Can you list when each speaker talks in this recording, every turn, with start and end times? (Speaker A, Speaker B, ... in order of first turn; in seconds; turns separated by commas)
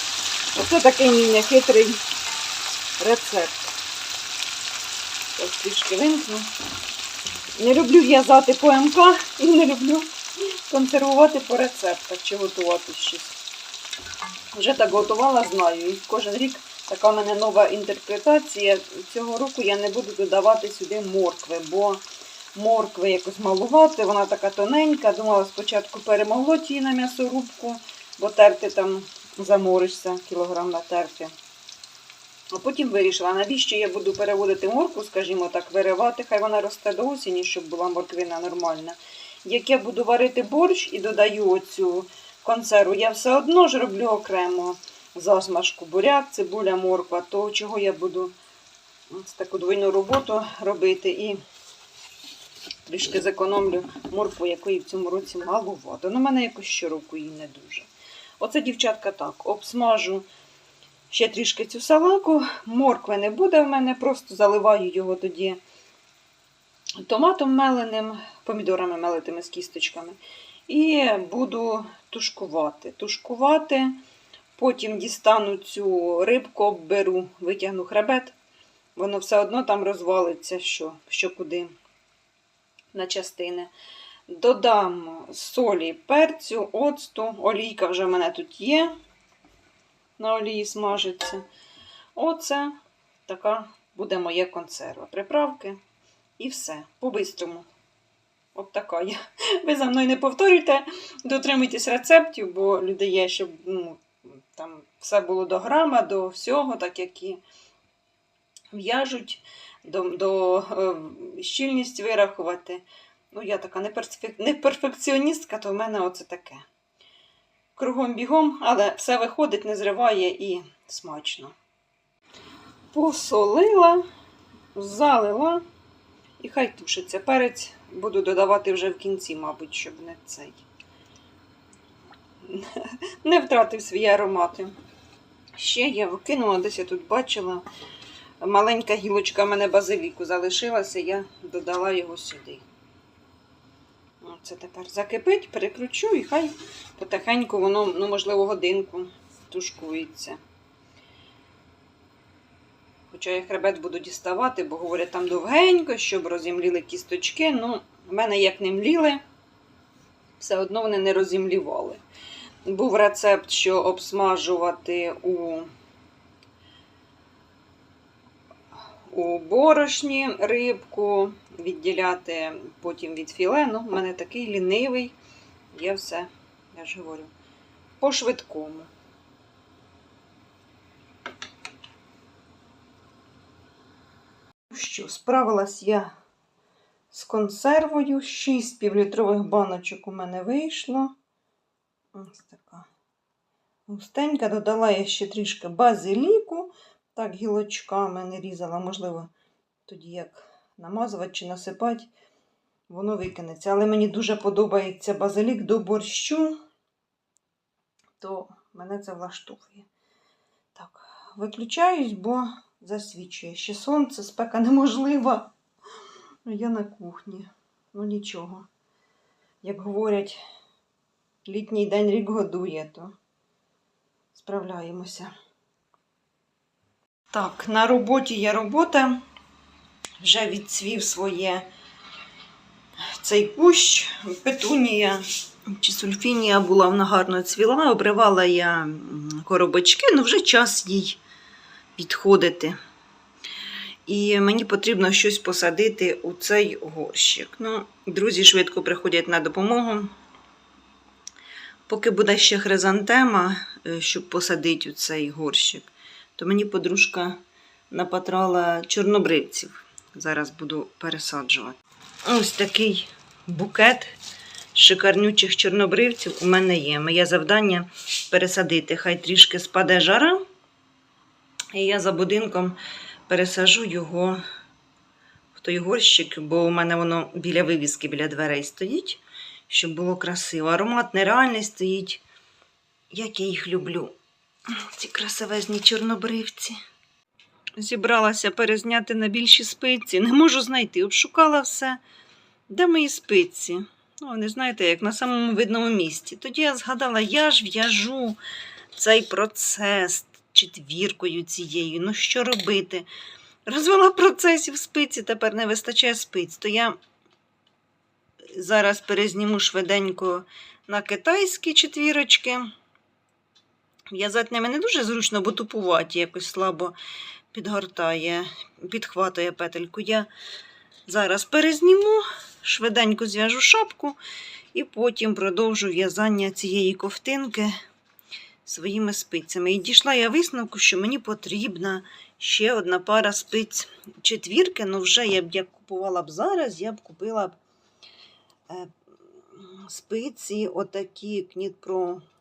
Speaker A: 0.5-2.0, Speaker A: 3.0-3.7, Speaker A: 5.3-6.5, Speaker A: 7.6-10.1, Speaker A: 10.7-13.4, Speaker A: 14.5-22.0, Speaker A: 22.5-31.3, Speaker A: 32.5-48.4, Speaker A: 49.1-51.4, Speaker A: 52.9-57.9, Speaker A: 58.4-60.3, Speaker A: 61.1-65.6, Speaker A: 67.0-74.0, Speaker A: 74.5-78.3, Speaker A: 79.0-81.7, Speaker A: 82.9-83.7, Speaker A: 84.3-89.0, Speaker A: 90.2-91.4, Speaker A: 92.2-95.8, Speaker A: 96.4-97.7, Speaker A: 98.5-107.4, Speaker A: 108.7-116.6, Speaker A: 117.8-121.5, Speaker A: 122.9-124.0, Speaker A: 124.7-125.6, Speaker A: 126.4-130.7, Speaker A: 132.4-134.7, Speaker A: 135.6-137.6, Speaker A: 138.4-142.7, Speaker A: 144.2-150.4, Speaker A: 153.1-159.2, Speaker A: 160.4-162.0, Speaker A: 162.7-165.7, Speaker A: 169.1-175.2, Speaker A: 175.7-177.3, Speaker A: 178.0-178.9, Speaker A: 184.7-186.1, Speaker A: 187.1-191.2, Speaker A: 192.1-192.9, Speaker A: 193.9-199.3, Speaker A: 199.8-202.1, Speaker A: 202.9-206.6, Speaker A: 208.2-209.9, Speaker A: 210.7-215.5, Speaker A: 216.4-218.7, Speaker A: 219.6-220.4, Speaker A: 221.4-223.2, Speaker A: 224.3-225.3, Speaker A: 227.3-229.2, Speaker A: 230.2-231.7, Speaker A: 233.0-241.2, Speaker A: 241.9-242.8, Speaker A: 244.1-250.1, Speaker A: 251.9-264.1, Speaker A: 264.7-270.4, Speaker A: 271.7-274.4, Speaker A: 275.5-282.2, Speaker A: 283.1-284.1, Speaker A: 284.7-286.8, Speaker A: 287.8-292.0, Speaker A: 292.7-298.4, Speaker A: 298.9-303.1, Speaker A: 303.6-307.0, Speaker A: 308.5-312.7, Speaker A: 314.1-316.9, Speaker A: 317.5-320.3, Speaker A: 321.1-324.2, Speaker A: 324.7-327.7, Speaker A: 328.6-337.6, Speaker A: 338.7-342.2